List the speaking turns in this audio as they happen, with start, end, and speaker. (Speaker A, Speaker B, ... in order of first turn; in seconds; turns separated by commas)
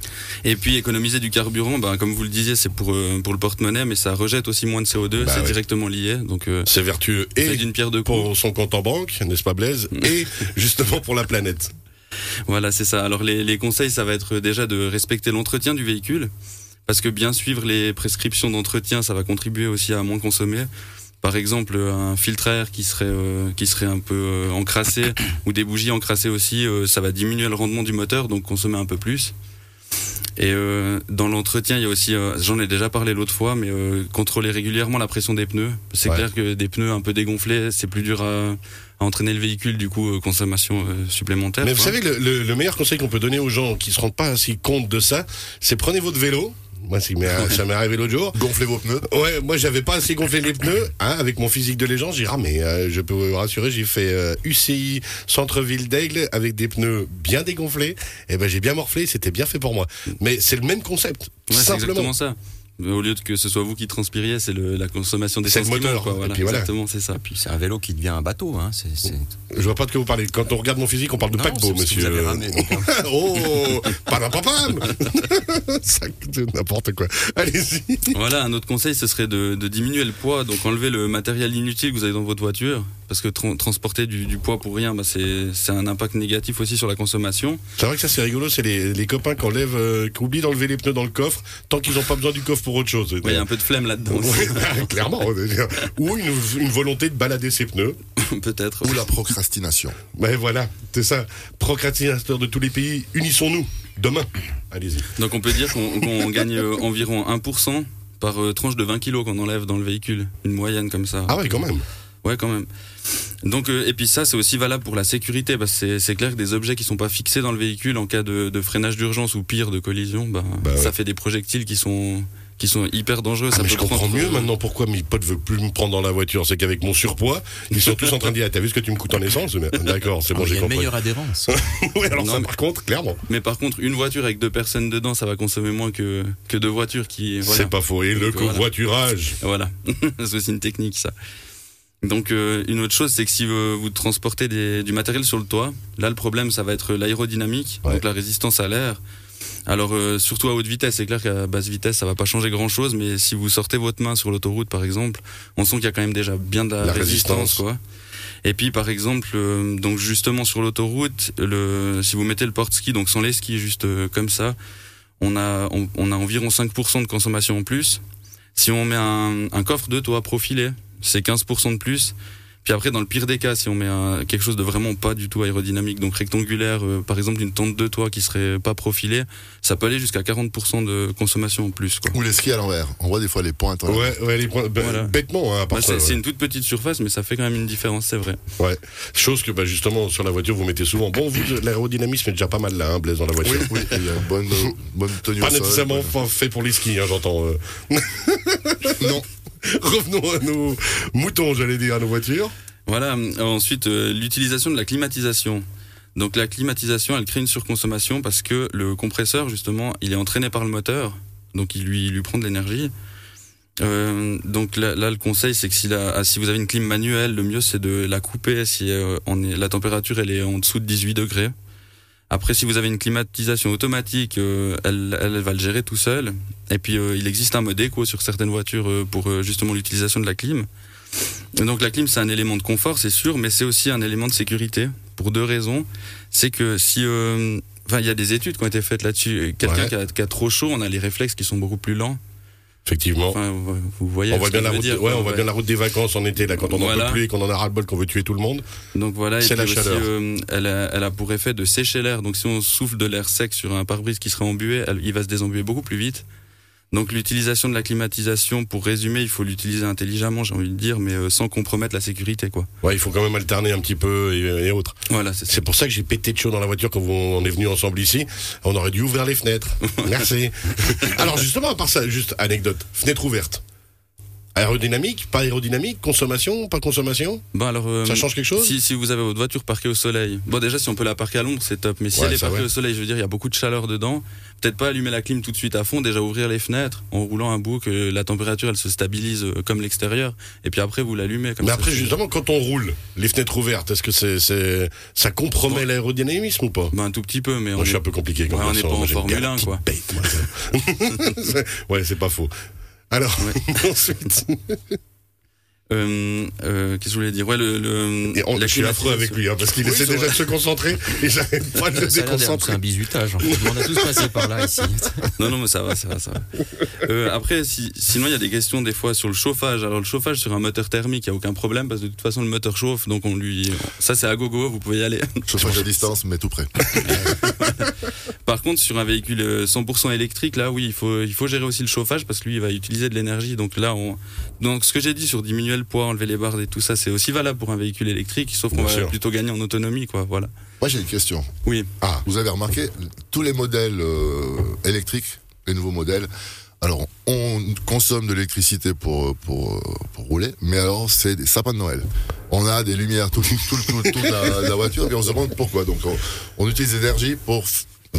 Speaker A: 0.4-6.7, Speaker B: 5.2-5.6, Speaker B: 6.7-11.7, Speaker A: 7.4-8.3, Speaker A: 12.5-16.3, Speaker A: 16.9-20.7, Speaker A: 21.2-29.3, Speaker A: 30.4-42.0, Speaker B: 41.6-48.4, Speaker C: 48.3-49.1, Speaker B: 49.0-62.1, Speaker A: 61.5-67.4, Speaker B: 65.5-66.7, Speaker D: 67.4-69.3, Speaker B: 69.5-78.2, Speaker D: 71.3-73.5, Speaker A: 78.1-87.6, Speaker B: 87.8-93.5, Speaker A: 93.2-94.9, Speaker B: 94.1-98.0, Speaker A: 98.2-99.1, Speaker C: 98.8-100.0, Speaker B: 100.1-105.1, Speaker A: 105.2-111.7, Speaker B: 111.3-111.8, Speaker A: 112.2-112.7, Speaker A: 113.4-124.5, Speaker B: 120.6-120.9, Speaker B: 123.5-133.2, Speaker D: 130.3-131.6, Speaker A: 132.1-132.5, Speaker A: 133.3-138.7, Speaker B: 137.4-139.4, Speaker A: 139.4-141.1, Speaker A: 142.0-149.0, Speaker A: 149.7-157.8, Speaker B: 156.8-157.6, Speaker A: 158.4-164.6, Speaker A: 165.2-168.0, Speaker A: 168.6-182.2, Speaker C: 182.1-184.2, Speaker B: 183.9-186.2, Speaker A: 184.8-185.2, Speaker A: 185.7-188.4, Speaker B: 188.6-193.9, Speaker C: 193.4-196.2, Speaker B: 195.4-199.1, Speaker C: 199.0-199.3, Speaker B: 199.6-202.5, Speaker A: 202.9-205.6, Speaker A: 206.2-212.9, Speaker A: 213.8-221.5, Speaker A: 222.3-230.7, Speaker A: 231.6-242.2, Speaker B: 239.6-239.9, Speaker B: 242.9-243.4, Speaker A: 243.3-245.5, Speaker B: 244.3-248.7, Speaker A: 246.7-247.2, Speaker A: 248.9-256.3, Speaker B: 249.4-250.1, Speaker A: 256.9-262.7, Speaker B: 262.8-273.6, Speaker A: 265.1-265.6, Speaker A: 269.9-270.3, Speaker B: 274.6-277.4, Speaker A: 277.5-292.1, Speaker B: 278.1-278.7, Speaker B: 282.1-282.7, Speaker B: 291.6-296.9, Speaker A: 296.9-299.8, Speaker B: 297.8-302.5, Speaker B: 303.1-305.0, Speaker A: 305.9-309.5, Speaker B: 308.3-312.8, Speaker D: 312.0-315.3, Speaker B: 313.6-313.9, Speaker A: 315.4-326.1, Speaker C: 325.5-327.2, Speaker A: 327.0-327.9, Speaker A: 328.4-340.5, Speaker B: 338.7-339.2, Speaker C: 340.8-341.5, Speaker A: 341.6-341.9, Speaker C: 342.2-346.3, Speaker C: 346.8-357.9